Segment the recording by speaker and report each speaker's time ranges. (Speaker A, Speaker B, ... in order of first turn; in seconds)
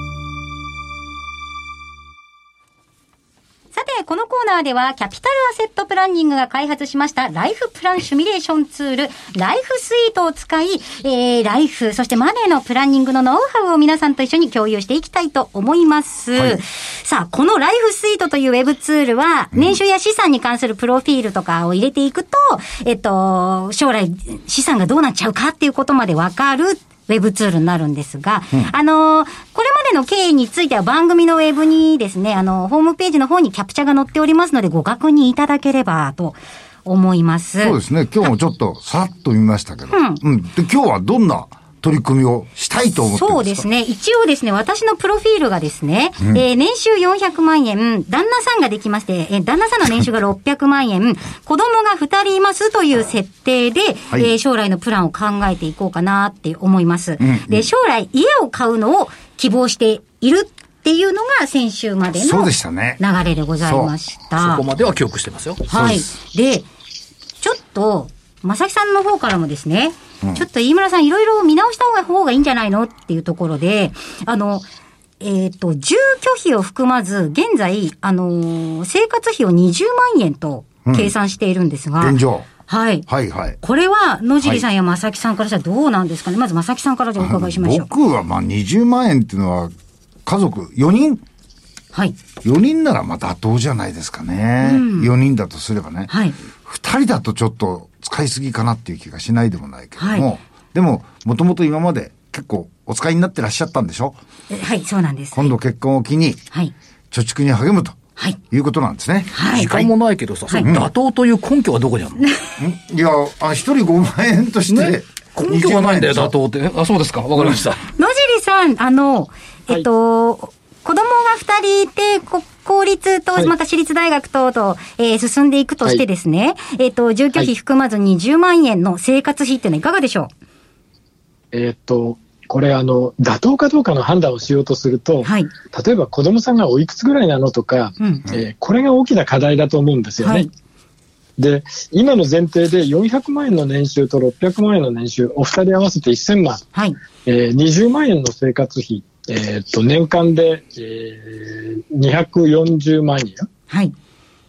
Speaker A: 3.7-37.8, 39.9-40.2, 43.0-64.6, 65.7-66.7, 67.4-74.7, 75.2-83.0, 83.6-87.9, 94.6-95.1, 96.1-96.4, 100.0-100.3, 104.5-105.5, 109.3-109.8, 118.0-130.3, 135.2-135.5, 138.0-138.3, 140.2-140.5
Speaker B: 37.6-43.7, 57.2-57.7, 62.2-63.0, 63.6-64.0, 65.7-66.1, 80.8-81.1, 82.0-82.5, 83.1-83.6, 87.2-89.7, 90.3-91.2, 92.4-96.1, 96.6-104.2, 105.3-106.4, 107.1-108.0, 108.5-109.9, 110.6-110.9, 112.6-116.3
Speaker C: 64.4-65.6, 109.5-112.2, 114.7-117.8
Speaker D: 131.5-140.5, 141.4-146.6, 147.3-153.5